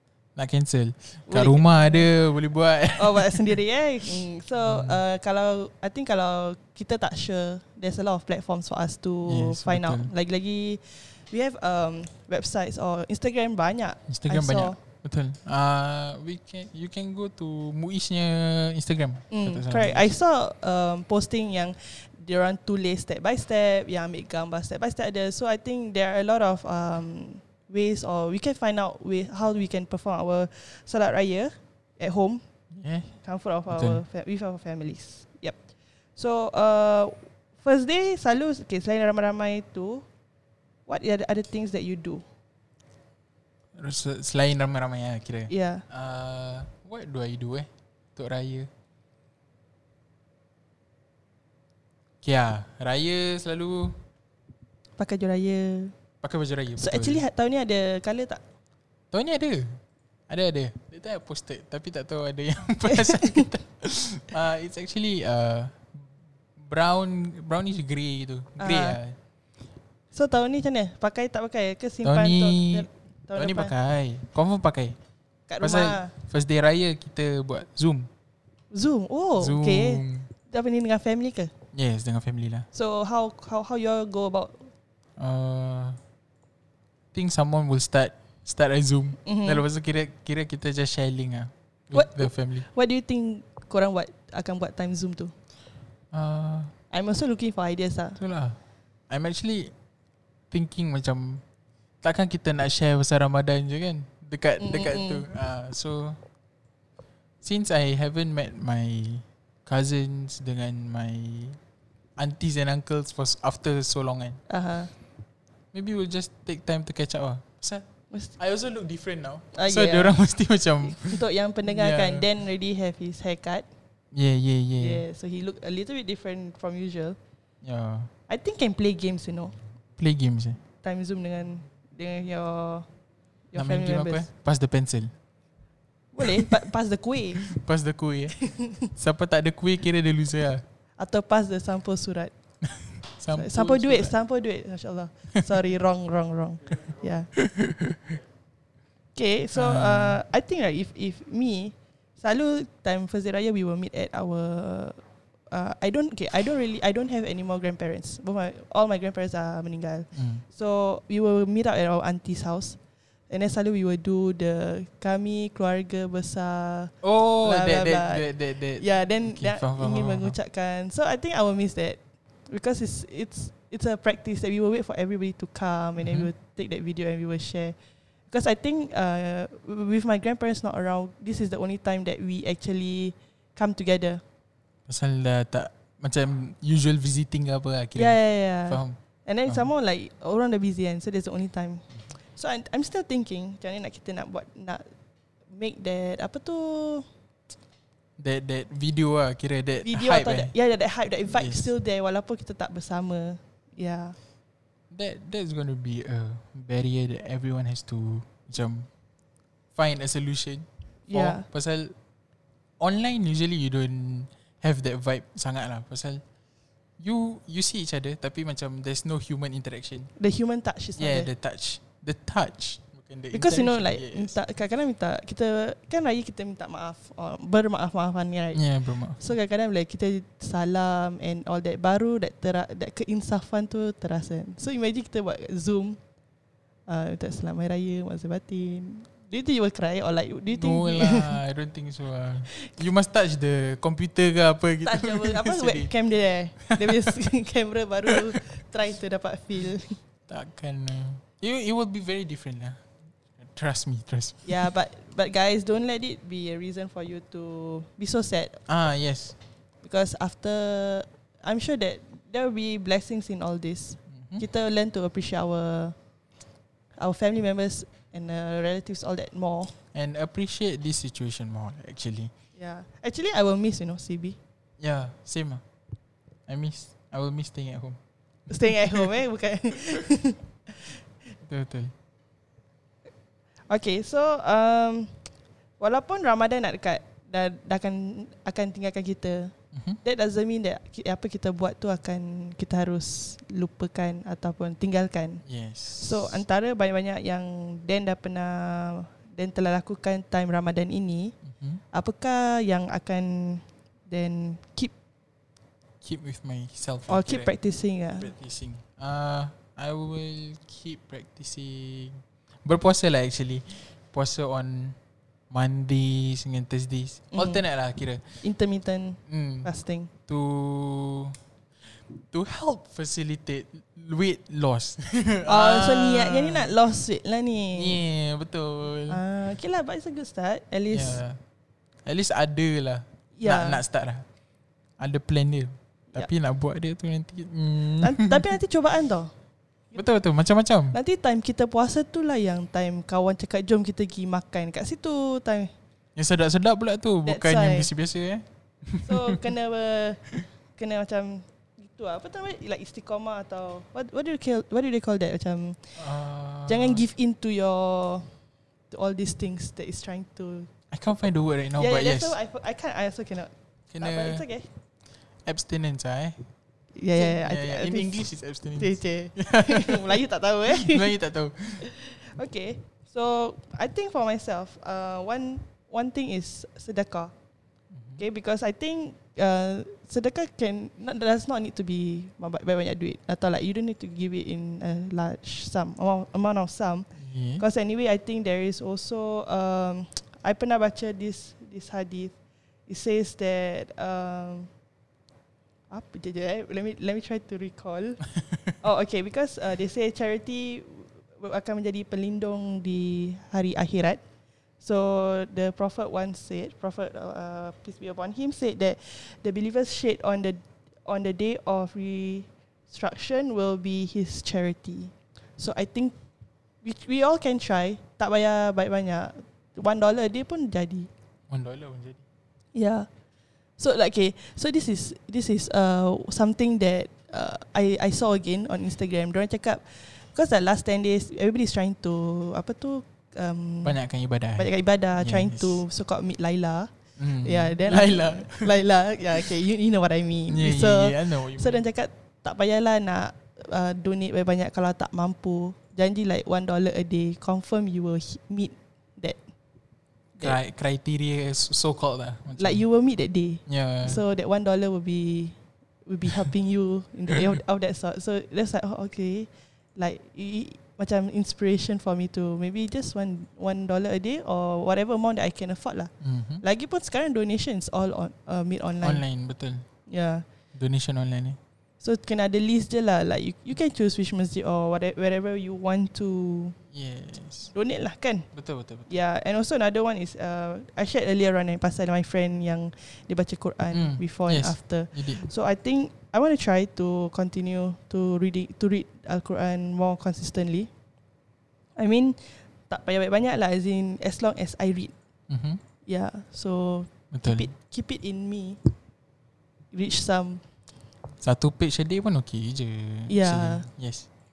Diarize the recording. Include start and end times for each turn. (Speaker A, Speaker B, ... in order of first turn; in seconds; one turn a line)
Speaker A: 0.3-3.6
Speaker B: 1.3-2.1
Speaker B: 2.9-14.8
Speaker A: 4.6-5.0
Speaker A: 9.3-10.1
Speaker A: 14.1-20.1
Speaker B: 19.3-32.4
Speaker A: 32.7-33.1
Speaker B: 33.2-35.6
Speaker A: 33.7-34.0
Speaker B: 36.1-40.0
Speaker B: 40.9-42.2
Speaker A: 43.8-48.7
Speaker B: 45.5-45.8
Speaker A: 52.2-54.0
Speaker B: 55.0-55.9
Speaker A: 56.2-57.2
Speaker B: 56.8-58.4
Speaker A: 59.1-69.2
Speaker B: 62.9-63.5
Speaker B: 68.6-69.0
Speaker B: 70.1-73.7
Speaker A: 72.0-75.0
Speaker B: 75.5-76.1
Speaker A: 75.6-78.1
Speaker B: 78.7-81.5
Speaker A: 79.4-80.3
Speaker A: 81.7-82.7
Speaker B: 82.7-84.7
Speaker A: 85.2-86.0
Speaker A: 87.1-92.7
Speaker B: 89.2-89.6
Speaker B: 91.9-95.3
Speaker A: 96.1-96.7
Speaker B: 96.9-98.2
Speaker A: 98.2-98.6
Speaker A: 99.1-99.7
Speaker A: 100.5-101.4
Speaker A: 102.0-106.2
Speaker B: 104.6-105.2
Speaker A: 107.4-111.6
Speaker A: 112.2-114.4
Speaker B: 114.5-114.9
Speaker A: 115.7-117.9
Speaker A: 118.4-122.3
Speaker B: 119.5-120.2
Speaker B: 120.8-123.7
Speaker A: 124.1-125.0
Speaker B: 124.8-127.2
Speaker A: 127.6-128.1
Speaker B: 128.3-129.6
Speaker A: 130.0-130.6
Speaker B: 130.8-132.8
Speaker B: 133.5-134.3
Speaker A: 133.6-135.1
Speaker B: 136.1-137.5
Speaker A: 136.2-136.5
Speaker A: 137.4-138.4
Speaker B: 138.4-138.9
Speaker A: 138.9-140.6
Speaker B: 141.0-142.3
Speaker A: 142.6-144.1
Speaker B: 143.3-147.3
Speaker A: 147.3-148.2
Speaker B: 149.1-155.0
Speaker A: 149.5-150.2
Speaker B: 155.5-162.8
Speaker A: 160.1-160.4
Speaker B: 163.3-172.0
Speaker A: 167.0-170.3
Speaker B: 172.5-177.7
Speaker A: 176.0-176.3
Speaker B: 178.3-184.2
Speaker A: 184.9-189.7
Speaker B: 187.9-194.8
Speaker B: 195.5-197.1
Speaker A: 198.2-200.5
Speaker B: 199.8-204.2
Speaker A: 201.3-201.7
Speaker A: 204.9-208.9
Speaker A: 209.7-211.9
Speaker B: 211.1-211.4
Speaker A: 212.8-216.2
Speaker A: 217.0-220.1
Speaker B: 220.2-221.3
Speaker A: 221.0-224.3
Speaker B: 223.3-236.0
Speaker A: 228.5-229.3
Speaker B: 236.9-241.4
Speaker A: 240.5-245.9
Speaker B: 244.8-250.0
Speaker A: 246.7-247.1
Speaker A: 250.3-252.8
Speaker A: 253.4-254.7
Speaker B: 254.4-258.6
Speaker A: 258.7-259.4
Speaker B: 259.8-265.9
Speaker A: 264.2-264.4
Speaker B: 267.0-269.7
Speaker A: 269.9-272.3
Speaker B: 272.6-274.4
Speaker A: 274.8-275.6
Speaker A: 276.5-278.0
Speaker B: 278.5-281.0
Speaker A: 278.6-279.1
Speaker A: 281.4-281.9
Speaker B: 283.7-285.1
Speaker B: 285.8-295.4
Speaker A: 289.7-290.0
Speaker A: 295.4-296.4
Speaker B: 295.9-301.3
Speaker A: 301.4-301.8
Speaker B: 301.9-304.9
Speaker A: 306.0-307.5
Speaker B: 307.1-308.3
Speaker A: 308.1-315.0
Speaker A: 315.5-318.4
Speaker B: 317.3-317.6
Speaker B: 318.4-320.1
Speaker A: 319.3-319.7
Speaker A: 320.3-326.7
Speaker B: 325.4-328.0
Speaker A: 327.7-329.2
Speaker B: 329.1-331.2
Speaker A: 330.9-331.4
Speaker A: 332.1-334.2
Speaker B: 333.4-333.8
Speaker A: 335.0-338.5
Speaker B: 338.0-339.3
Speaker A: 339.9-341.0
Speaker B: 340.9-345.7
Speaker A: 346.1-349.4
Speaker B: 347.2-347.9
Speaker B: 349.0-350.2
Speaker B: 350.8-356.0
Speaker A: 356.0-357.0
Speaker B: 356.7-358.3
Speaker B: 358.9-360.7
Speaker A: 360.9-362.4
Speaker B: 361.8-364.7
Speaker A: 363.9-364.4
Speaker A: 365.4-366.4
Speaker B: 367.0-371.1
Speaker A: 367.1-371.9
Speaker B: 371.8-377.3
Speaker A: 377.9-378.2
Speaker B: 378.2-387.1
Speaker A: 387.2-387.6
Speaker B: 387.6-392.3
Speaker B: 392.9-394.7
Speaker B: 395.9-398.2
Speaker B: 398.8-404.2
Speaker B: 404.8-416.1
Speaker B: 416.8-421.1
Speaker A: 421.5-422.2
Speaker B: 422.7-423.1
Speaker B: 423.8-434.0
Speaker A: 433.8-435.8
Speaker B: 434.6-436.9
Speaker A: 437.2-438.7
Speaker B: 437.4-449.4
Speaker A: 440.5-441.8
Speaker A: 450.4-452.8
Speaker B: 452.6-466.1
Speaker A: 453.7-454.2
Speaker A: 466.2-466.6
Speaker B: 466.6-469.2
Speaker A: 469.0-469.9
Speaker B: 470.1-470.4
Speaker A: 470.7-471.6
Speaker B: 472.0-476.8
Speaker A: 476.9-477.7
Speaker B: 477.7-478.4
Speaker A: 478.5-479.1
Speaker B: 479.1-490.9
Speaker A: 483.9-485.4
Speaker B: 492.0-495.1
Speaker A: 495.5-495.8
Speaker B: 496.1-498.8
Speaker A: 497.3-497.7
Speaker B: 499.9-500.6
Speaker A: 501.4-504.3
Speaker B: 503.3-503.9